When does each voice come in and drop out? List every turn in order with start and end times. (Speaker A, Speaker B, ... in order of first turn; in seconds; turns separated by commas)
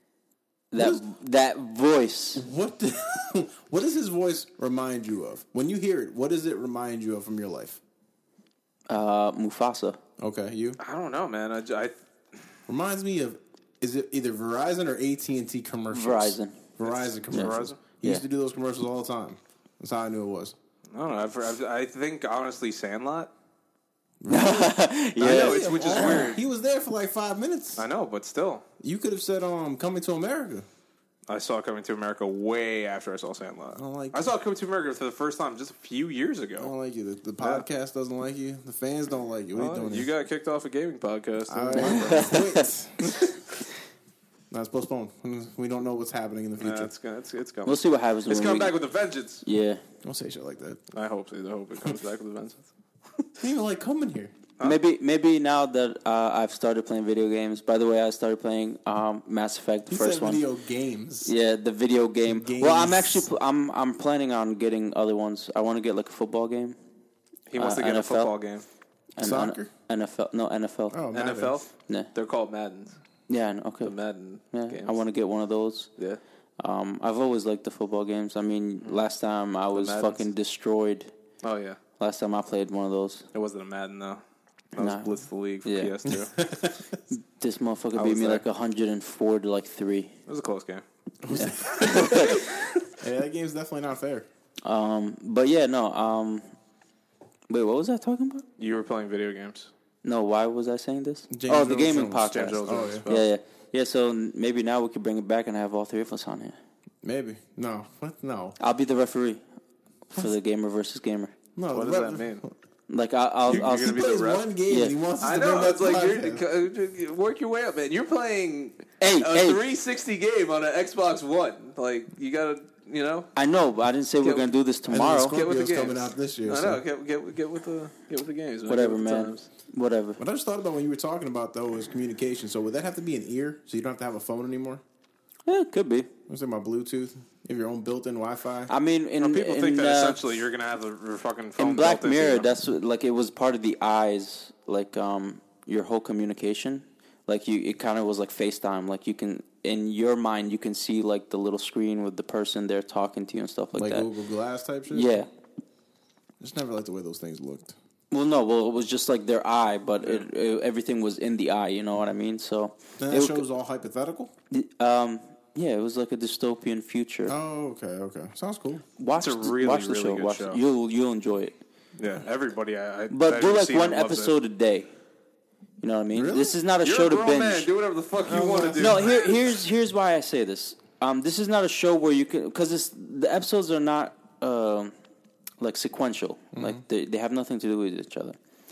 Speaker A: 0.7-2.4, Speaker B: 0.8-1.0, Speaker B: 2.3-7.8, Speaker A: 8.9-10.0, Speaker B: 10.2-10.8, Speaker C: 10.8-11.9, Speaker B: 12.7-20.5, Speaker A: 15.9-16.6, Speaker C: 16.8-17.8, Speaker A: 17.3-18.2, Speaker C: 20.9-23.3, Speaker B: 24.2-27.9, Speaker A: 24.3-26.3, Speaker C: 25.2-26.4, Speaker C: 27.8-28.6, Speaker B: 28.8-30.6, Speaker C: 31.3-36.7, Speaker B: 33.8-34.2, Speaker B: 36.6-40.1, Speaker C: 39.5-42.4, Speaker B: 41.5-43.2, Speaker A: 41.7-42.7, Speaker B: 44.5-46.9, Speaker C: 46.6-49.4, Speaker A: 47.6-48.8, Speaker A: 49.4-49.8, Speaker B: 50.0-50.8, Speaker C: 50.9-52.7, Speaker B: 53.4-54.3, Speaker A: 54.6-60.4, Speaker B: 59.9-61.3, Speaker A: 61.2-66.8, Speaker B: 62.3-63.2, Speaker C: 67.5-68.6, Speaker A: 67.6-68.3, Speaker A: 69.2-71.0, Speaker B: 69.2-69.7, Speaker B: 70.9-71.5, Speaker C: 71.1-72.9, Speaker A: 73.3-73.9, Speaker C: 73.8-74.9, Speaker A: 74.5-75.9, Speaker A: 76.6-81.1, Speaker C: 79.7-80.2, Speaker C: 81.4-81.8, Speaker A: 82.0-83.3, Speaker C: 83.3-84.2, Speaker C: 84.7-86.4, Speaker A: 84.8-85.9, Speaker B: 86.1-86.8, Speaker A: 87.1-90.1, Speaker C: 87.9-88.4, Speaker C: 90.3-90.8, Speaker B: 91.2-94.3, Speaker A: 91.3-92.4, Speaker A: 94.6-96.5, Speaker A: 97.5-98.4, Speaker C: 98.6-99.7, Speaker A: 100.0-106.5, Speaker B: 101.3-103.1, Speaker C: 102.3-103.3, Speaker B: 107.0-108.6, Speaker A: 108.6-109.4, Speaker A: 110.1-111.3, Speaker B: 111.5-112.5, Speaker C: 111.7-112.4, Speaker A: 112.9-114.0, Speaker C: 113.5-114.5, Speaker B: 113.5-116.4, Speaker A: 114.7-115.0, Speaker C: 115.2-123.3, Speaker A: 119.0-119.6, Speaker A: 123.3-125.4, Speaker C: 124.2-124.5, Speaker B: 124.9-126.8, Speaker C: 125.2-129.5, Speaker A: 128.7-130.2, Speaker B: 130.2-134.8, Speaker A: 135.5-136.1, Speaker B: 136.3-138.7, Speaker A: 138.7-140.2, Speaker C: 139.2-142.5, Speaker A: 141.6-154.1, Speaker B: 153.7-155.2, Speaker A: 154.9-155.3, Speaker B: 156.4-157.7, Speaker A: 158.1-163.4, Speaker B: 163.0-164.3, Speaker A: 164.5-167.3, Speaker B: 167.2-168.8, Speaker A: 169.0-171.5, Speaker C: 169.2-170.6, Speaker C: 172.0-174.3, Speaker A: 173.1-174.9, Speaker A: 175.8-177.7, Speaker B: 176.1-176.6, Speaker C: 176.8-179.2, Speaker B: 178.2-179.1, Speaker A: 178.8-184.9, Speaker A: 185.6-188.4, Speaker B: 186.5-186.8